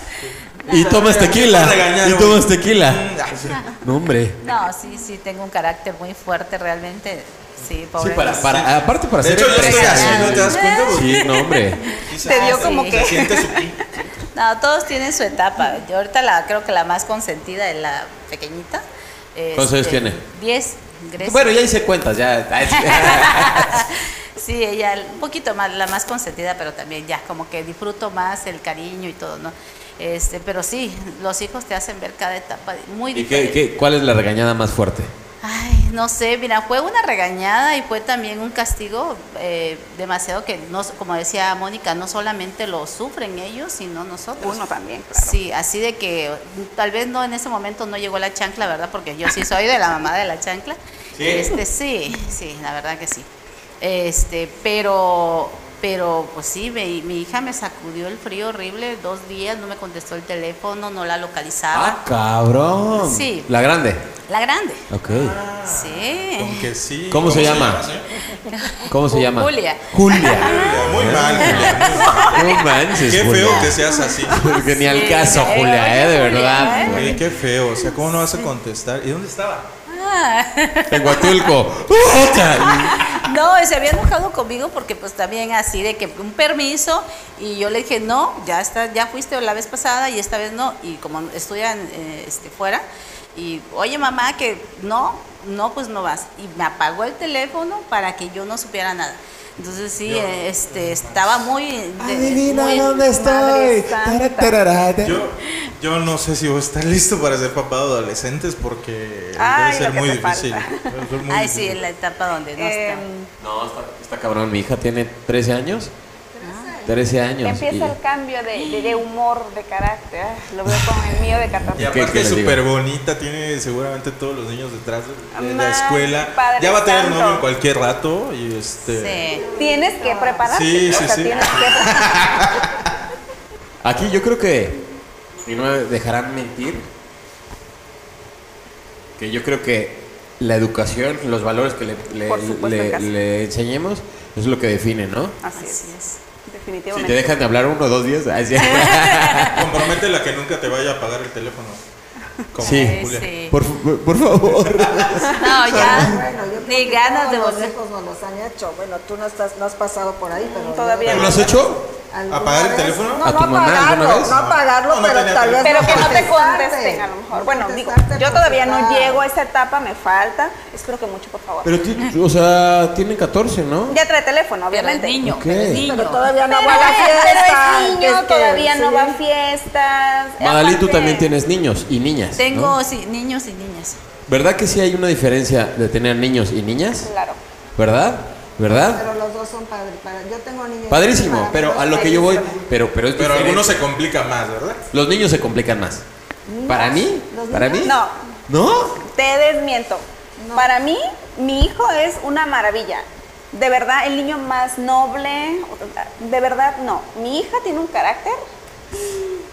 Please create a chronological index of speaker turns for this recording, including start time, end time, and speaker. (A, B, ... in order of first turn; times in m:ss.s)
0:00.2-0:03.7 A
0:00.6-0:04.4 B
0:00.7-0:01.1 C
0:04.4-0:08.6 C
0:08.0-0:11.9 B
0:08.4-0:11.3 A
0:09.5-0:13.0 C
0:12.0-0:13.8 D
0:12.1-0:13.8 A
0:14.3-0:18.8 C
0:19.3-0:21.6 C
0:19.6-0:20.2 B
0:21.2-0:23.8 B
0:22.7-0:33.6 C
0:33.1-0:35.1 B
0:35.4-0:44.6 C
0:44.4-0:45.4 D
0:45.1-0:53.3 C
0:51.2-0:51.6 B
0:53.8-1:02.0 C
1:01.7-1:04.0 B
1:03.0-1:03.5 C
1:04.3-1:04.8 C
1:04.9-1:05.4 B
1:05.1-1:08.1 A
1:05.6-1:06.6 C
1:07.1-1:07.9 B
1:08.4-1:12.6 C
1:08.9-1:17.2 B
1:10.2-1:14.5 A
1:14.3-1:17.2 C
1:16.8-1:19.7 A
1:19.9-1:21.5 C
1:20.9-1:23.2 B
1:22.8-1:43.0 C
1:40.0-1:41.5 A
1:42.0-1:45.2 B
1:42.6-1:44.5 D
1:45.0-1:51.8 A
1:49.4-1:50.9 D
1:51.3-1:53.0 C
1:52.6-1:53.3 D
1:53.4-1:55.9 B
1:56.4-1:57.0 E
1:56.8-1:57.9 B
1:57.4-2:02.0 D
1:58.6-1:59.0 C
2:00.8-2:01.0 B
2:01.7-2:02.6 B
2:01.8-2:09.3 A
2:05.3-2:07.5 D
2:08.8-2:09.5 C
2:09.3-2:10.5 E
2:09.5-2:12.2 D
2:10.5-2:12.9 A
2:13.8-2:14.8 B
2:15.4-2:16.8 B
2:19.2-2:25.4 B
2:22.3-2:23.1 D
2:25.4-2:25.9 D
2:25.5-2:26.2 C
2:26.4-2:27.4 D
2:26.9-2:29.7 B
2:28.6-2:29.6 C
2:29.5-2:31.8 A
2:32.5-2:33.3 A
2:32.6-2:36.2 B
2:32.6-2:33.6 C
2:34.4-2:35.3 A
2:35.3-2:37.7 C
2:35.6-2:41.5 E
2:40.4-2:41.6 D
2:41.1-2:41.8 B
2:41.1-2:41.4 A
2:42.1-2:49.2 E
2:42.3-2:43.2 A
2:43.2-2:44.4 B
2:44.3-2:46.3 A
2:45.6-2:51.7 D
2:51.6-2:54.0 B
2:53.9-2:55.2 D
2:54.7-2:57.2 C
2:55.2-2:55.8 B
2:55.8-2:59.2 E
2:56.5-3:01.3 D
3:00.4-3:02.8 B
3:02.4-3:04.0 C
3:04.3-3:07.1 B
3:07.0-3:07.4 D
3:07.8-3:09.0 B
3:08.7-3:12.6 E
3:10.9-3:13.8 B
3:13.2-3:14.8 A
3:14.9-3:16.0 B
3:16.5-3:17.9 E
3:16.7-3:17.9 B
3:17.8-3:18.2 D
3:18.5-3:19.0 B
3:19.0-3:28.4 D
3:20.4-3:20.7 E
3:29.0-3:29.3 D